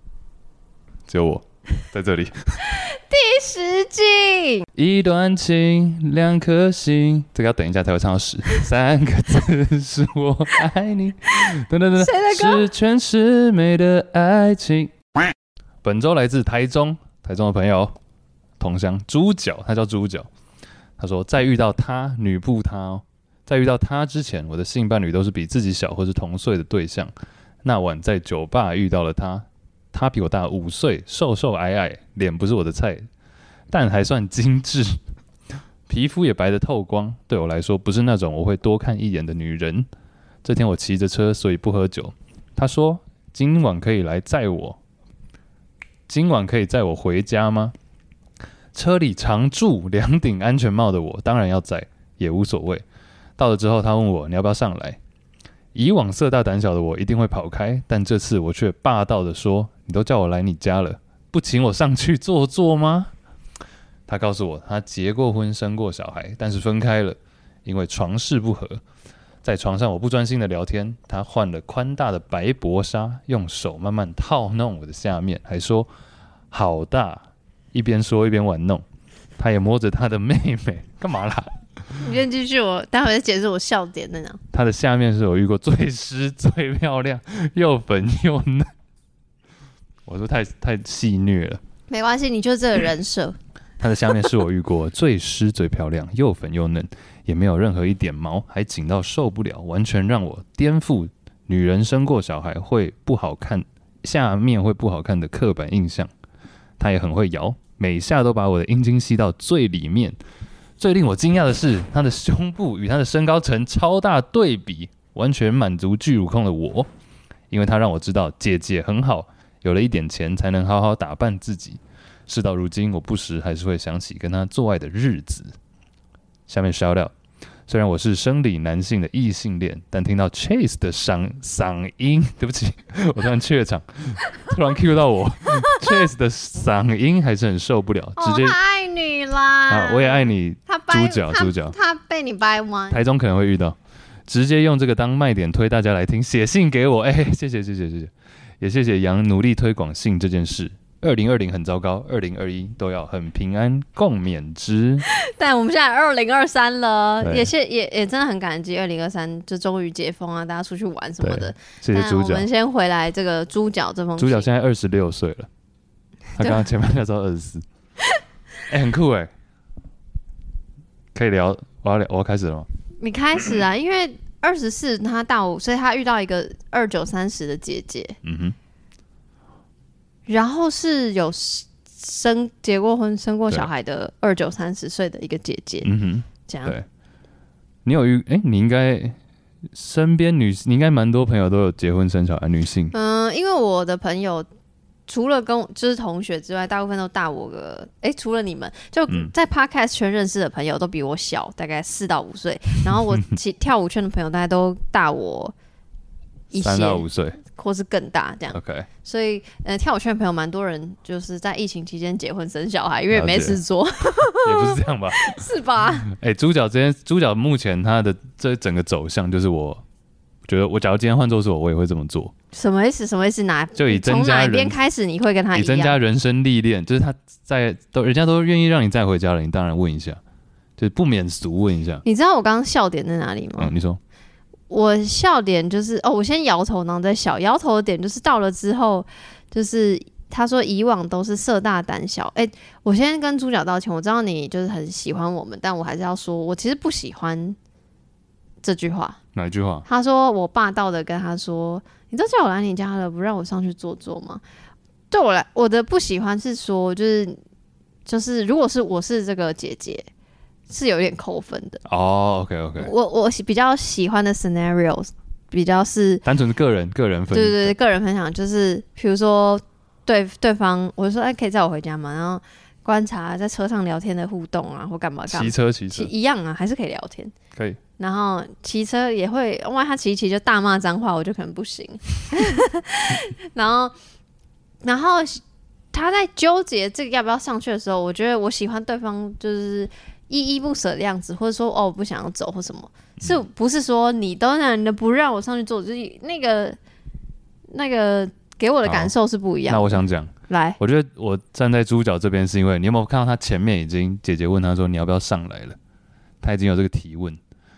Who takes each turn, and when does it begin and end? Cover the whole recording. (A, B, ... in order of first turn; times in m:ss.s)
0:01.1-0:02.6 A
0:02.6-0:04.6 B
0:04.8-0:14.9 A
0:12.0-0:12.7 B
0:15.8-0:17.9 A
0:18.6-0:20.3 A
0:21.0-0:27.1 A
0:27.6-0:33.1 A
0:33.7-0:35.0 A
0:35.9-0:39.9 A
0:40.4-0:44.8 A
0:46.1-0:47.7 A
0:48.7-0:52.8 A
0:53.4-0:55.0 A
0:55.7-1:03.1 A
1:04.1-1:08.8 A
1:09.4-1:15.9 A
1:16.5-1:18.8 A
1:19.4-1:22.1 A
1:22.0-1:24.4 B
1:24.5-1:28.7 A
1:30.0-1:31.6 A
1:31.9-1:33.4 B
1:33.8-1:46.1 A
1:46.8-1:50.2 A
1:50.8-1:56.9 A
1:57.5-2:05.5 A
2:06.5-2:07.1 A
2:07.7-2:18.6 A
2:15.6-2:16.0 B
2:18.2-2:23.0 B
2:19.7-2:21.7 A
2:22.9-2:35.0 A
2:35.0-2:44.5 B
2:37.2-2:37.5 A
2:41.2-2:42.5 A
2:44.2-2:45.5 A
2:46.4-2:47.6 A
2:48.7-2:49.3 A
2:51.1-2:52.7 A
2:53.0-2:58.2 B
2:58.2-2:58.6 A
3:00.3-3:05.9 B
3:05.8-3:06.8 A
3:06.5-3:06.7 B
3:07.8-3:09.2 A
3:09.7-3:12.9 A
3:12.9-3:14.5 B
3:15.1-3:25.5 B
3:26.5-3:36.1 B
3:26.5-3:27.4 A
3:28.5-3:28.9 A
3:33.1-3:33.6 A
3:34.4-3:35.4 A
3:36.0-3:39.8 A
3:40.4-3:42.3 A
3:42.5-3:46.0 B
3:43.7-3:44.8 A
3:45.5-3:50.2 A
3:50.8-3:52.0 A
3:52.0-3:53.7 B
3:53.6-3:54.0 A
3:54.7-4:07.6 B
4:08.6-4:09.2 B
4:09.3-4:09.8 A
4:09.8-4:14.4 B
4:15.1-4:17.4 B
4:18.0-4:20.1 B
4:20.7-4:21.8 B
4:21.8-4:22.9 A
4:22.8-4:26.2 B
4:26.2-4:27.7 A
4:27.3-4:37.3 B
4:35.3-4:36.1 A
4:38.0-4:43.9 B
4:44.8-4:45.4 B
4:45.9-4:56.8 B
4:57.7-5:00.8 B
4:58.8-4:59.1 A
4:59.7-5:05.8 A
5:06.4-5:07.4 A